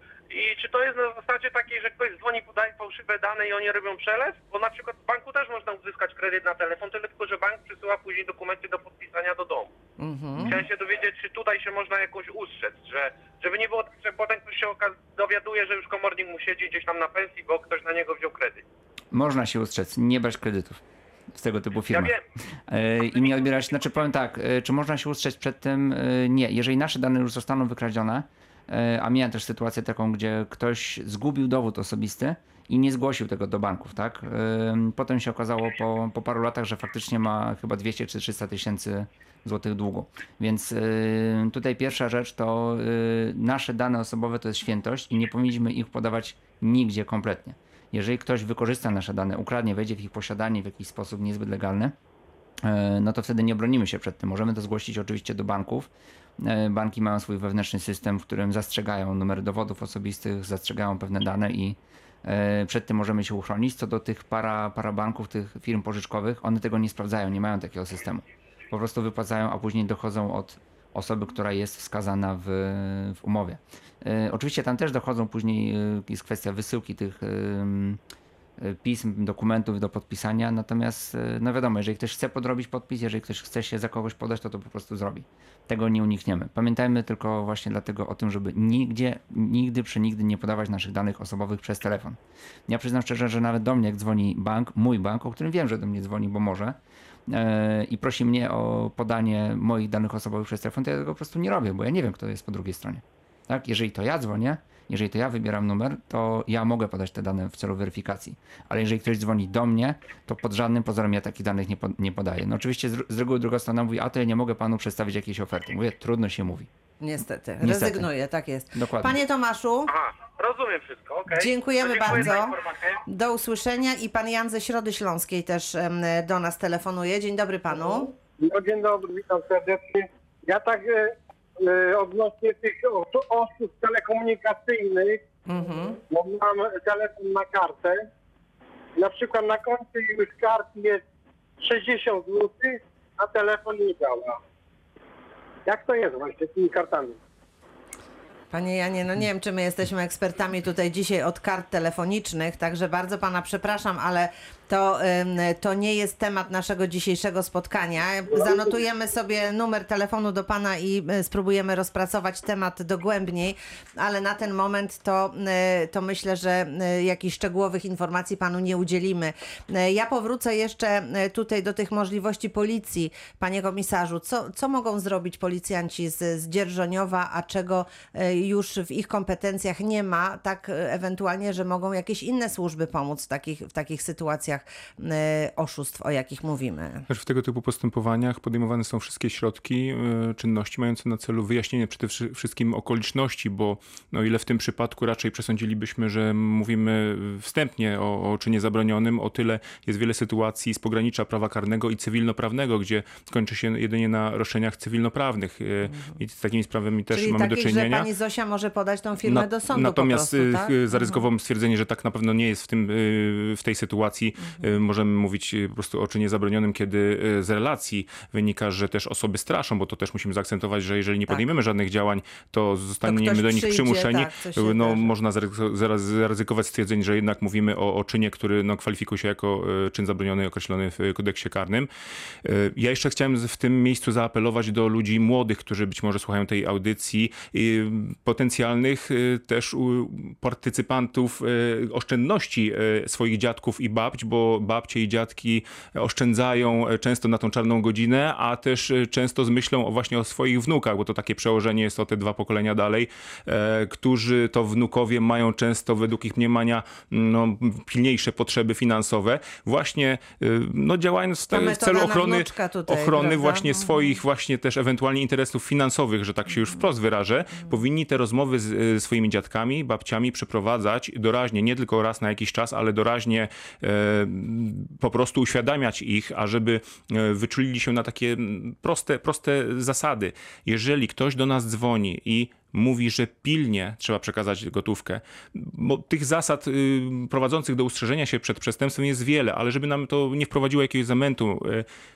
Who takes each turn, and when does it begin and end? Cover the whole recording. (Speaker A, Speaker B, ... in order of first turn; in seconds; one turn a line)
Speaker A: 0.3-9.7
Speaker B: 10.0-10.6
Speaker C: 10.3-10.6
Speaker A: 10.5-18.6
Speaker C: 19.1-20.8
Speaker C: 21.3-51.9
Speaker C: 52.6-78.0
Speaker C: 78.6-96.8
Speaker C: 97.3-116.7
Speaker B: 117.0-119.9
Speaker C: 117.6-118.1
Speaker C: 118.7-119.2
Speaker A: 119.9-122.8
Speaker B: 121.3-128.1
Speaker D: 128.4-135.2
Speaker B: 135.5-136.0
Speaker D: 136.1-138.1
Speaker D: 138.9-141.0
Speaker D: 141.6-144.4
Speaker D: 145.7-147.2
Speaker B: 148.5-187.1
Speaker E: 187.1-208.1
Speaker B: 205.9-206.2
Speaker B: 207.1-211.2
Speaker E: 209.2-231.9
Speaker B: 223.0-225.1
Speaker E: 232.4-291.9
Speaker B: 261.5-264.2